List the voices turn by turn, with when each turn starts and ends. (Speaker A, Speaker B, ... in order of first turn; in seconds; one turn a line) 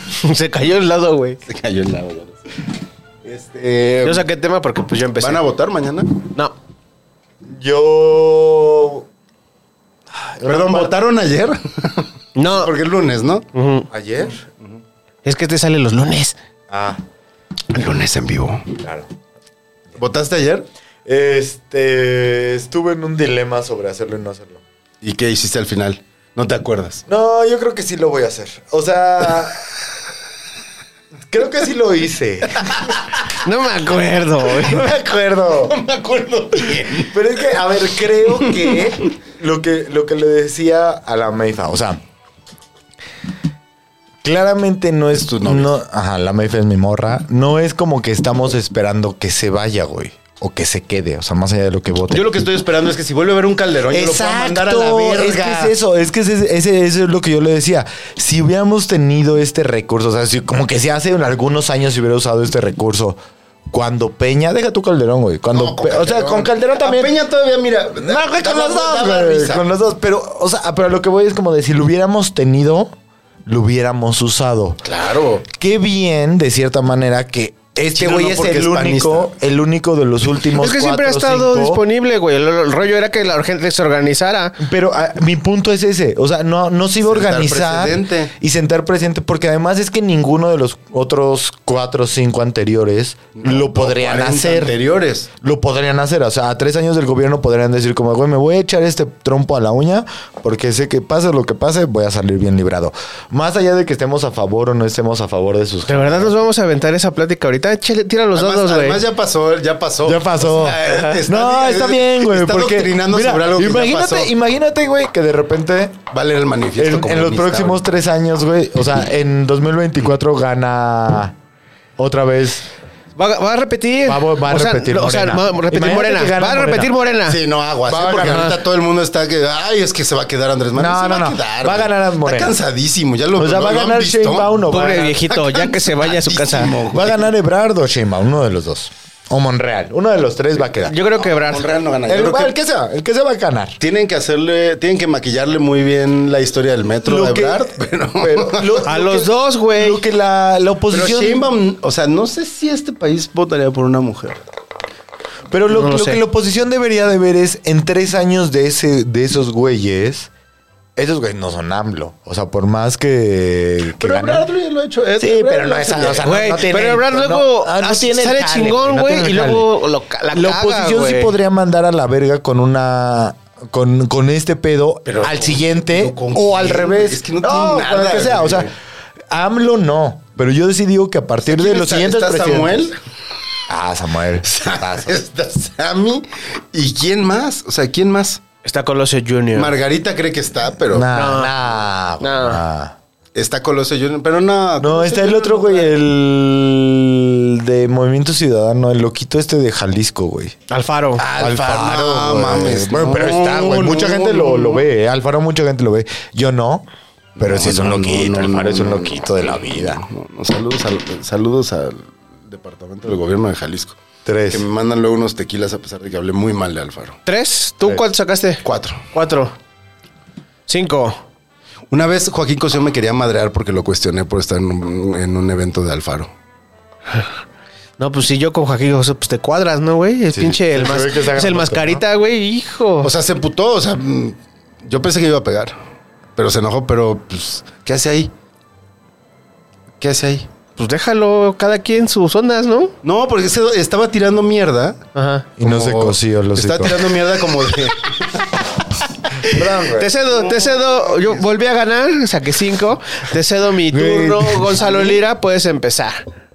Speaker A: 0.2-1.4
Speaker B: 1.5-2.4
Speaker B: 3.2-4.2
Speaker A: 4.0-5.4
Speaker B: 5.2-6.2
Speaker C: 7.4-9.1
Speaker C: 10.1-10.9
Speaker B: 10.4-13.5
Speaker A: 12.3-12.7
Speaker A: 13.5-13.9
Speaker C: 13.9-14.4
Speaker A: 15.2-16.4
Speaker C: 16.7-17.0
Speaker B: 17.7-18.8
Speaker C: 18.8-19.1
Speaker B: 20.0-20.6
Speaker C: 21.0-24.6
Speaker B: 25.0-27.0
Speaker C: 27.1-29.7
Speaker C: 31.3-32.9
Speaker A: 33.4-34.9
Speaker C: 34.6-35.8
Speaker B: 35.7-37.1
Speaker C: 37.0-42.0
Speaker C: 44.2-52.3
Speaker B: 45.2-45.7
Speaker B: 52.1-55.7
Speaker C: 53.9-63.2
Speaker C: 63.7-67.1
Speaker B: 65.5-69.7
Speaker C: 68.0-72.9
Speaker C: 73.5-74.8
Speaker B: 74.8-75.4
Speaker C: 75.5-81.8
Speaker B: 77.9-79.3
Speaker A: 80.6-84.6
Speaker C: 84.6-94.7
Speaker B: 87.0-88.3
Speaker B: 93.4-95.3
Speaker C: 95.4-106.3
Speaker A: 105.9-109.0
Speaker B: 108.3-114.3
Speaker C: 110.0-116.0
Speaker B: 116.1-117.8
Speaker C: 116.8-121.3
Speaker C: 122.0-122.7
Speaker A: 123.2-127.4
Speaker C: 124.0-126.9
Speaker B: 127.3-137.3
Speaker C: 127.9-128.5
Speaker A: 128.2-128.6
Speaker C: 130.7-132.5
Speaker C: 133.3-135.2
Speaker A: 134.7-136.8
Speaker C: 136.9-140.9
Speaker A: 140.8-141.7
Speaker B: 141.4-142.6
Speaker C: 142.1-143.8
Speaker B: 143.8-148.8
Speaker C: 147.0-151.4
Speaker A: 148.8-150.0
Speaker B: 150.9-154.4
Speaker C: 155.5-160.3
Speaker A: 155.7-156.2
Speaker C: 160.9-164.4
Speaker B: 164.0-166.3
Speaker C: 165.2-169.7
Speaker A: 166.2-171.3
Speaker C: 170.3-178.7
Speaker B: 175.1-178.7
Speaker C: 179.3-182.8
Speaker B: 181.4-182.9
Speaker C: 183.7-185.2
Speaker B: 184.4-188.4
Speaker A: 188.6-189.7
Speaker B: 189.5-191.2
Speaker C: 190.9-192.9
Speaker A: 191.1-191.5
Speaker A: 192.2-192.6
Speaker B: 193.3-195.9
Speaker C: 194.8-200.6
Speaker A: 200.7-201.2
Speaker B: 201.2-204.8
Speaker C: 201.4-206.9
Speaker B: 207.4-214.0
Speaker C: 207.4-210.0
Speaker C: 214.2-214.6
Speaker B: 214.5-217.2
Speaker A: 217.2-218.6
Speaker B: 218.6-219.0
Speaker A: 219.1-219.5
Speaker A: 220.7-221.2
Speaker B: 221.9-226.3
Speaker A: 228.0-233.1
Speaker C: 230.3-232.0
Speaker B: 233.0-235.8
Speaker B: 236.3-238.3
Speaker B: 240.0-240.5
Speaker A: 240.8-242.9
Speaker B: 243.0-245.0
Speaker A: 245.1-245.4
Speaker C: 245.6-247.1
Speaker B: 245.6-248.5
Speaker C: 249.4-250.1
Speaker A: 249.9-256.2
Speaker B: 250.3-251.3
Speaker C: 253.9-254.8
Speaker B: 254.8-255.2